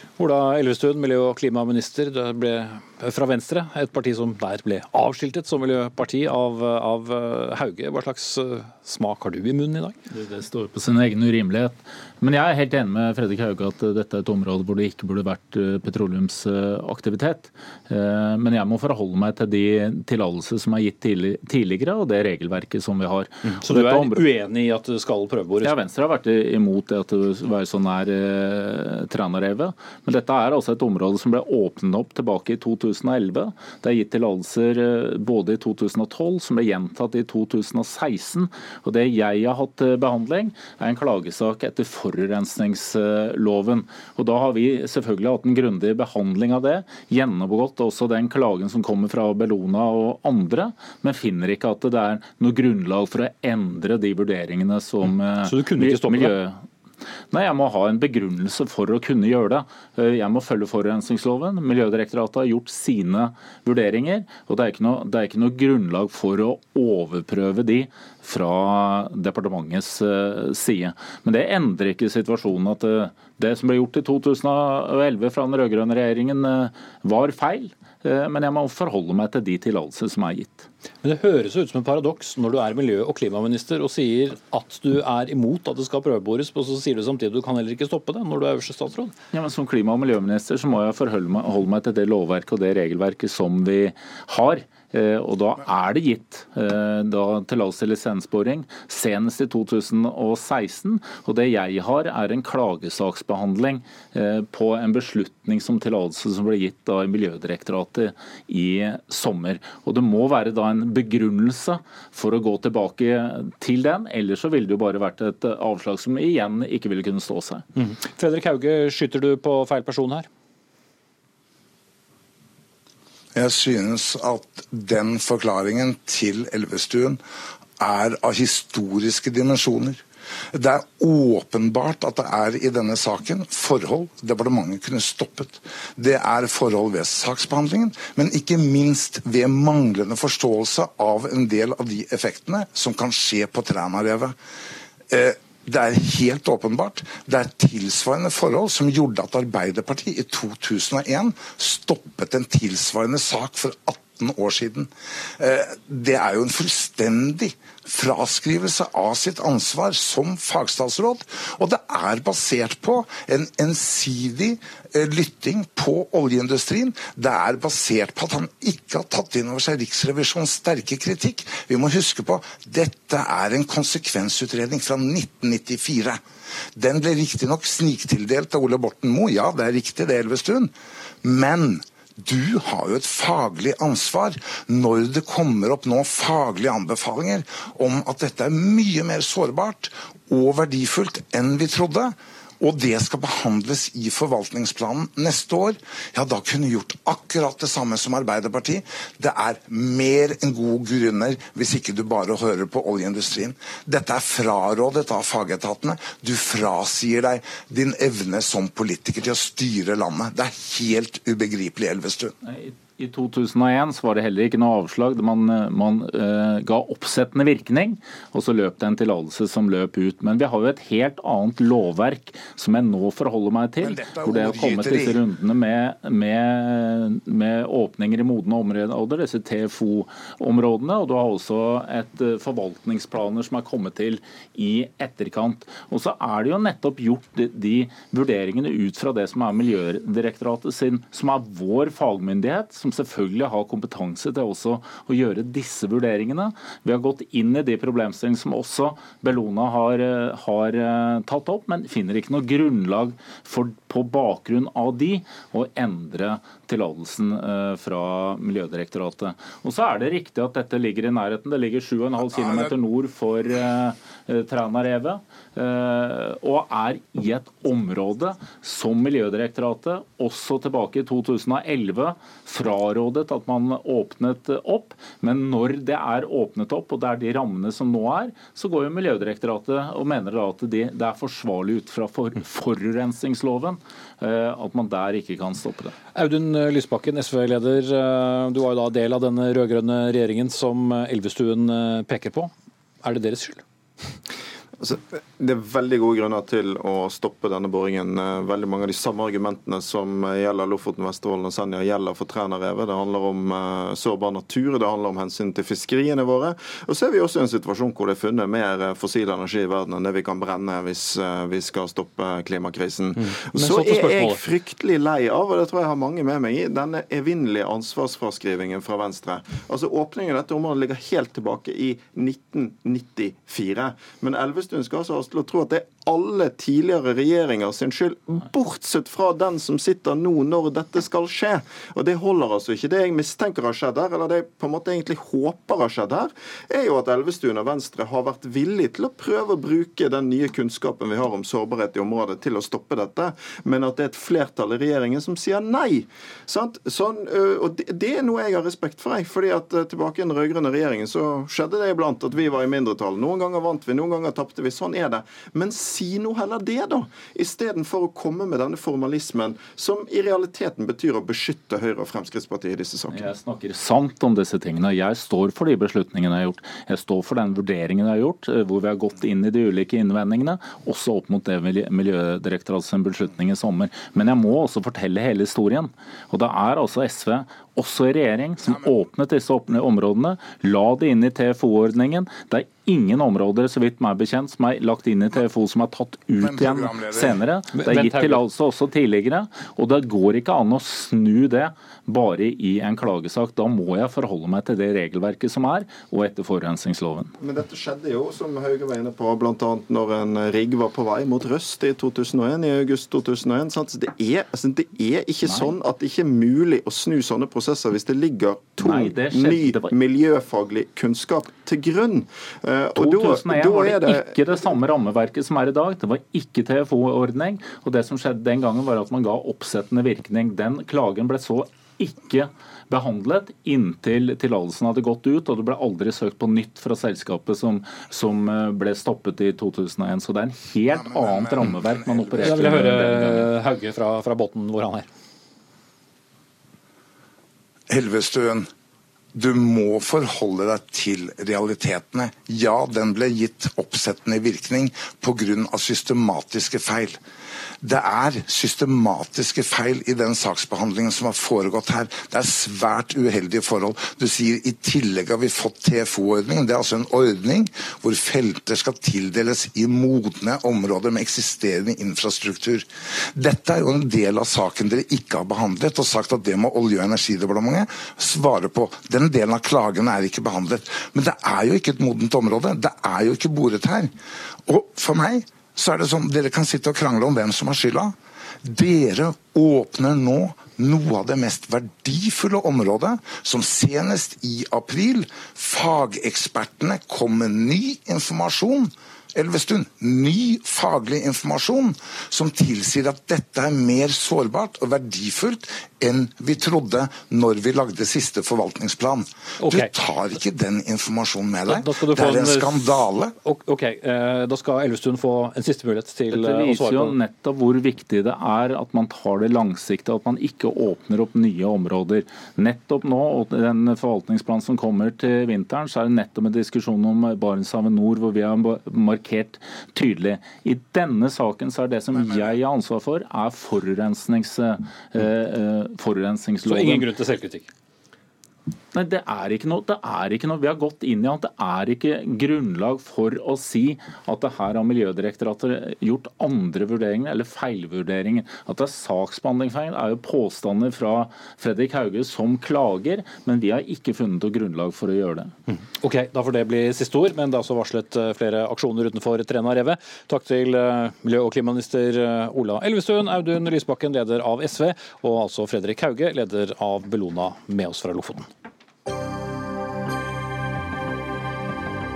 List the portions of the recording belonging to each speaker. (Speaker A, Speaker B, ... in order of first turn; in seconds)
Speaker A: 0.2-10.0, 23.6-25.8, 55.4-56.4, 81.0-89.2, 117.8-120.3, 286.1-292.5, 293.0-293.6, 313.2-314.4, 387.8-388.4, 432.4-435.1, 499.6-499.9, 501.7-507.1, 526.6-527.7, 546.0-558.5
Speaker B: 10.1-24.3, 25.6-56.6, 57.3-80.7, 89.3-117.7, 212.4-285.9, 363.1-397.3, 405.4-405.7, 408.8-409.9, 413.0-433.5, 506.3-527.1, 528.9-545.5
Speaker C: 123.3-127.2, 127.8-144.3, 145.1-176.2, 176.8-180.7, 181.2-212.3, 223.8-225.2, 262.4-262.7, 386.4-387.4, 431.0-432.9, 437.9-438.7, 439.3-447.2, 447.8-474.1, 474.7-503.3
Speaker D: 294.8-363.3, 397.4-414.4